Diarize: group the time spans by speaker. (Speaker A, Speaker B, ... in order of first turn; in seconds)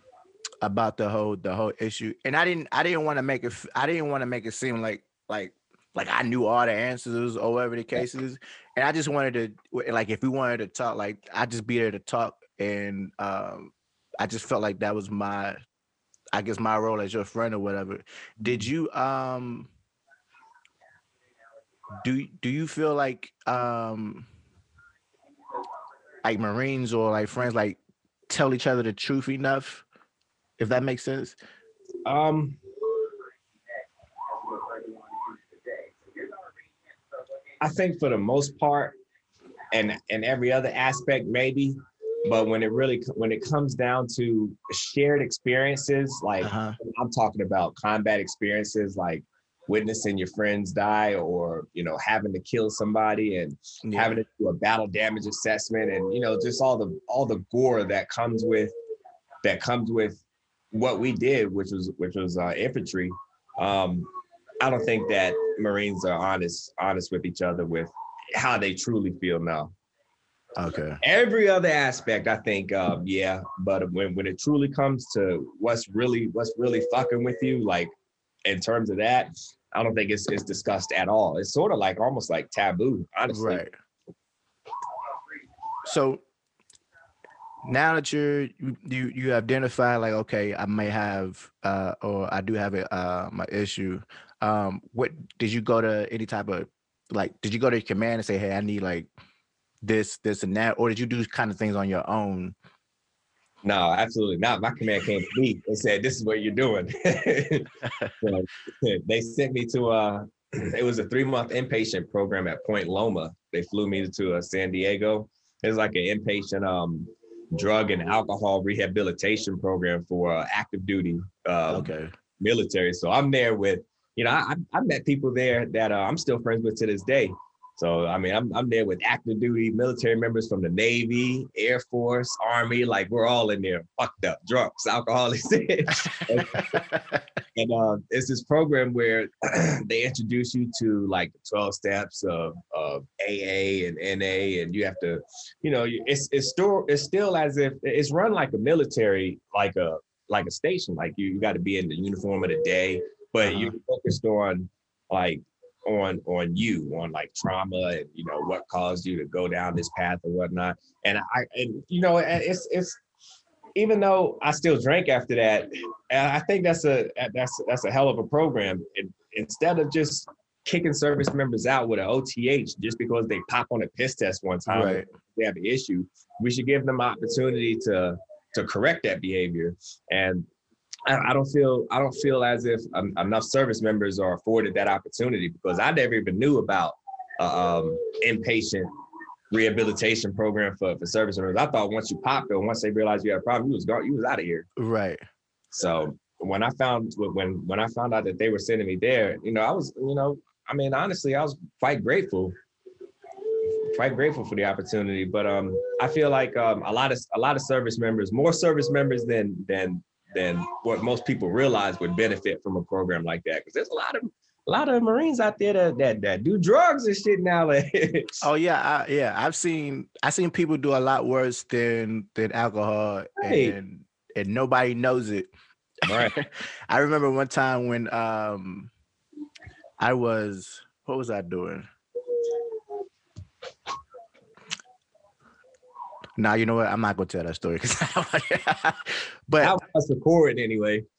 Speaker A: 0.6-13.7, 14.2-15.6, 16.3-19.7, 22.0-24.3, 26.2-27.8, 28.3-29.9, 30.6-31.4, 46.4-46.8, 53.8-54.2, 70.6-71.0, 83.3-83.7, 85.8-86.2, 87.7-99.1, 99.8-102.5, 107.8-108.2, 121.7-122.1, 136.1-137.2, 153.4-153.8, 174.7-175.1, 194.8-195.2, 218.4-225.5, 226.1-228.9, 230.0-231.9, 236.4-239.8
Speaker B: 32.1-32.6, 37.6-39.0, 39.7-41.8, 42.3-58.7, 59.4-60.2, 60.7-64.1, 64.6-69.7, 71.0-77.9, 78.5-83.6, 103.6-107.7, 108.2-136.8, 137.6-163.0, 163.8-180.5, 181.1-188.9, 189.5-194.7, 195.7-202.6, 203.8-218.4, 223.4-223.8, 226.1-226.3, 239.6-241.0